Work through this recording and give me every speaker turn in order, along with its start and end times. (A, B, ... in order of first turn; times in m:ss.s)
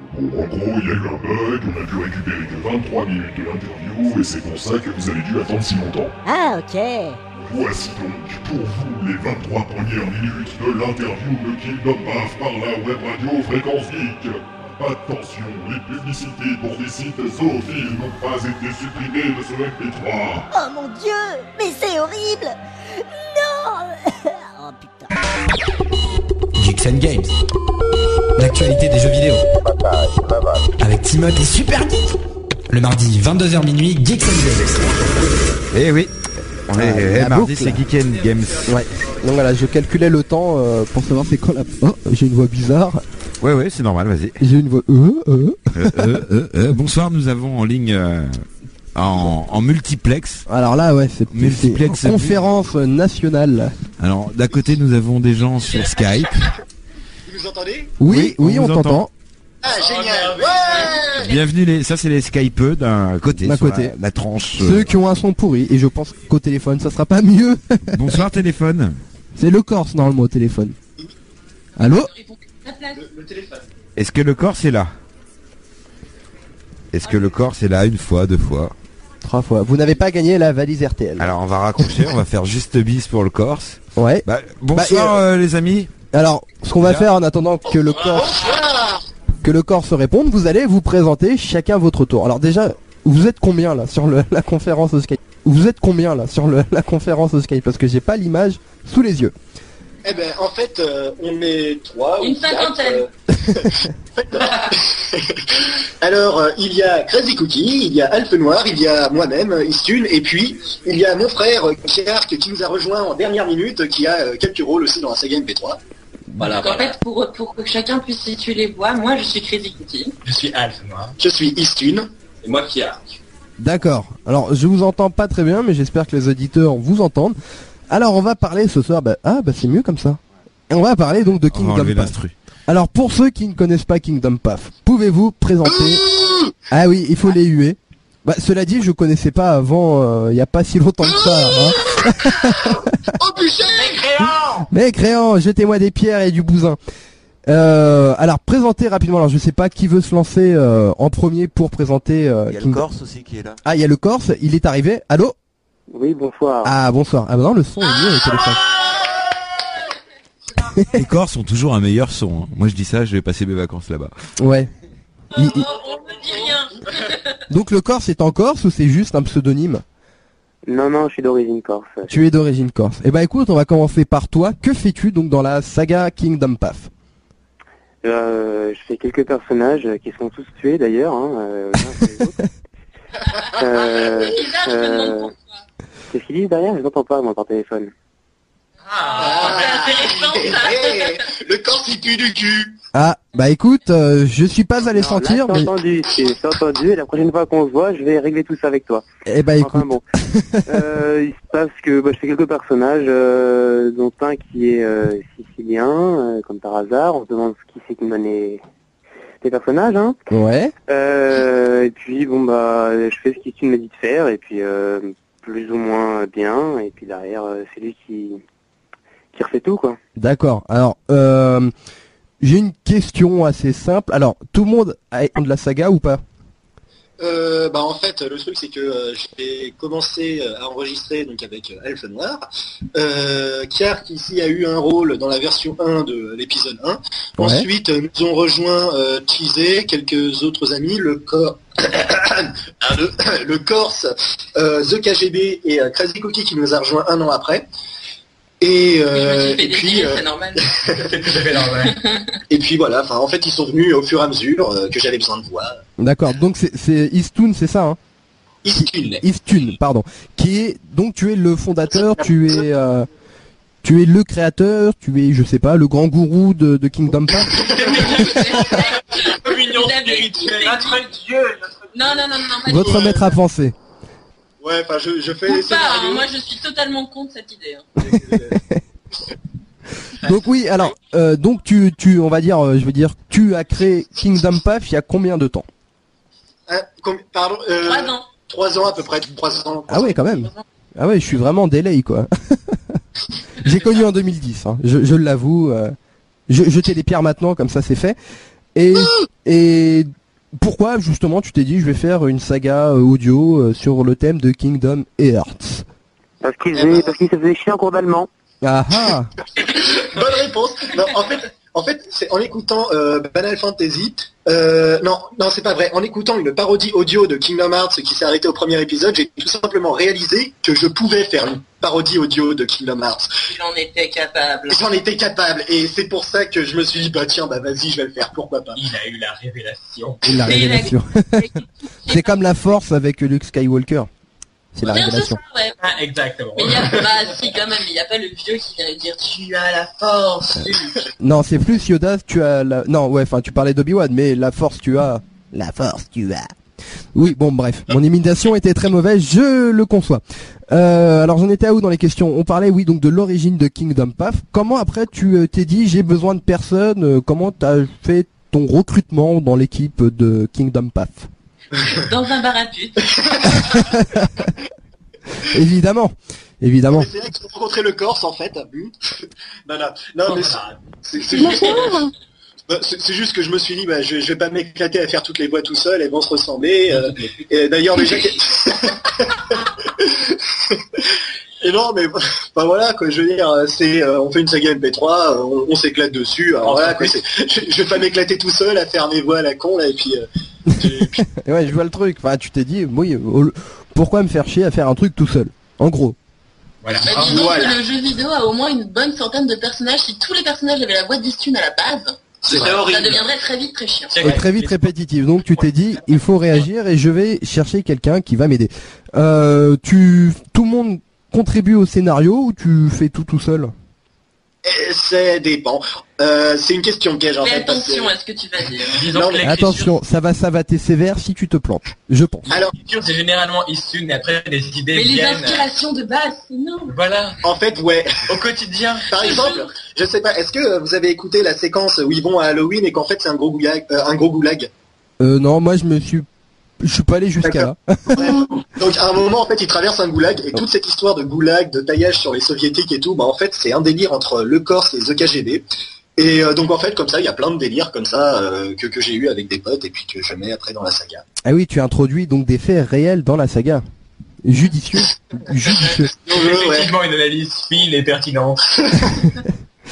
0:00.1-0:06.1 A
0:06.2-0:07.2 B
0:07.4-0:20.5 A
0:20.5-0:25.1 B
0:26.6-0:27.3 C
0:28.4-0:29.4 C
0:30.8-0:32.1 C
0:32.7-0:34.9 C
0:35.7-0:36.1 D
0:36.7-0:38.7 D
0:36.8-0:37.8 E
0:38.7-0:43.0 E
0:43.4-0:44.4 D
0:44.4-0:46.2 E
0:45.7-0:48.4 D
0:48.9-0:50.4 D
0:50.5-0:53.7 E
0:51.3-0:52.4 D
0:54.0-0:56.4 D
0:57.2-0:58.0 F
0:58.0-0:59.1 E
0:58.1-0:59.0 D
0:59.6-1:01.3 F
0:59.7-1:01.1 G
1:01.2-1:04.9 D
1:03.4-1:03.9 E
1:04.6-1:08.2 E
1:07.9-1:08.9 D
1:09.4-1:10.7 E
1:11.8-1:12.1 E
1:11.9-1:13.0 H
1:12.9-1:13.7 F
1:14.0-1:14.9 D
1:16.9-1:18.7 D
1:19.2-1:21.3 E
1:21.2-1:25.9 D
1:24.0-1:25.2 E
1:26.1-1:28.4 E
1:28.1-1:28.6 G
1:28.1-1:29.0 F
1:29.4-1:39.3 E
1:40.0-1:55.8 F
1:42.2-1:43.0 H
1:56.4-1:57.0 F
1:56.4-2:00.1 H
2:00.2-2:01.2 G
2:01.2-2:02.1 F
2:02.4-2:03.2 G
2:03.6-2:07.4 E
2:07.9-2:12.1 E
2:11.5-2:12.3 D
2:12.7-2:16.0 E
2:15.6-2:16.5 F
2:16.7-2:22.8 E
2:21.1-2:24.2 F
2:23.7-2:24.7 G
2:24.7-2:26.8 E
2:27.5-2:32.8 E
2:32.5-2:33.6 D
2:33.6-2:35.3 E
2:35.9-2:36.7 I
2:36.6-2:38.6 E
2:38.2-2:38.5 H
2:40.9-2:44.1 D
2:44.4-2:44.7 E
2:45.3-2:47.4 H
2:45.3-2:45.6 E
2:47.5-2:49.8 E
2:50.7-2:52.2 I
2:52.1-2:56.9 E
2:58.0-3:02.5 I
3:03.4-3:05.6 H
3:03.6-3:05.3 I
3:06.1-3:07.9 I
3:08.8-3:10.3 G
3:09.0-3:11.2 H
3:09.1-3:12.8 F
3:12.9-3:15.7 E
3:14.9-3:19.0 I
3:19.2-3:20.9 E
3:19.6-3:20.0 I
3:20.7-3:28.6 I
3:29.4-3:30.1 I
3:30.3-3:30.7 E
3:30.9-3:38.4 I
3:39.3-3:40.0 I
3:40.2-3:41.7 E
3:42.4-3:46.2 E
3:47.2-4:07.6 F
3:57.4-3:57.7 E
4:08.6-4:11.0 F
4:09.1-4:10.7 H
4:10.9-4:12.0 G
4:11.8-4:12.4 H
4:12.5-4:15.8 F
4:16.0-4:18.0 E
4:18.6-4:19.2 F
4:18.7-4:23.1 E
4:22.0-4:22.6 F
4:23.8-4:27.7 E
4:27.6-4:28.0 F
4:27.6-4:31.6 G
4:27.8-4:31.0 H
4:31.9-4:33.3 H
4:32.6-4:33.7 E
4:32.8-4:33.2 F
4:34.6-4:36.3 F
4:35.5-4:37.9 H
4:38.0-4:38.6 F
4:38.5-4:38.8 E
4:40.2-4:45.7 E
4:46.7-4:50.2 F
4:47.8-4:48.3 H
4:49.9-4:53.0 E
4:50.3-4:50.6 H
4:53.6-4:56.0 E
4:56.5-4:58.2 E
4:58.7-5:05.8 E
5:06.4-5:08.3 I
5:06.7-5:07.2 F
5:08.6-5:09.3 E
5:09.6-5:23.3 F
5:23.5-5:24.8 H
5:24.7-5:28.8 F
5:28.7-5:30.2 G
5:30.2-5:31.5 E
5:30.4-5:32.4 H
5:32.1-5:34.1 E
5:34.7-5:35.4 E
5:34.8-5:35.8 H
5:35.8-5:37.4 G
5:36.6-5:41.0 H
5:41.2-5:46.5 E
5:47.1-6:01.3 E
6:01.9-6:03.8 H
6:03.6-6:04.3 E
6:05.4-6:07.1 E
6:06.9-6:08.9 F
6:09.6-6:12.0 F
6:10.2-6:10.8 G
6:11.3-6:12.0 H
6:11.4-6:12.0 G
6:12.7-6:31.2 F
6:16.9-6:17.3 G
6:26.6-6:27.2 G
6:30.9-6:36.2 E
6:36.8-6:37.8 G
6:37.0-6:44.2 H
6:42.4-6:42.9 F
6:42.4-6:43.2 G
6:44.1-6:44.9 G
6:44.2-6:53.7 E
6:45.5-6:46.3 G
6:54.6-6:58.1 F
6:57.4-6:59.0 H
6:58.9-7:00.0 G
6:59.1-6:59.4 F
6:59.4-7:02.5 E
7:02.5-7:02.7 F
7:02.5-7:05.6 G
7:04.9-7:06.9 H
7:06.9-7:07.4 G
7:07.4-7:08.2 F
7:08.3-7:09.1 G
7:09.1-7:14.7 F
7:09.2-7:09.7 H
7:15.2-7:16.2 E
7:16.8-7:18.4 E
7:17.4-7:25.6 F
7:26.2-7:31.2 F
7:31.4-7:33.8 E
7:34.4-7:36.1 E
7:36.2-7:36.9 F
7:36.3-7:39.0 G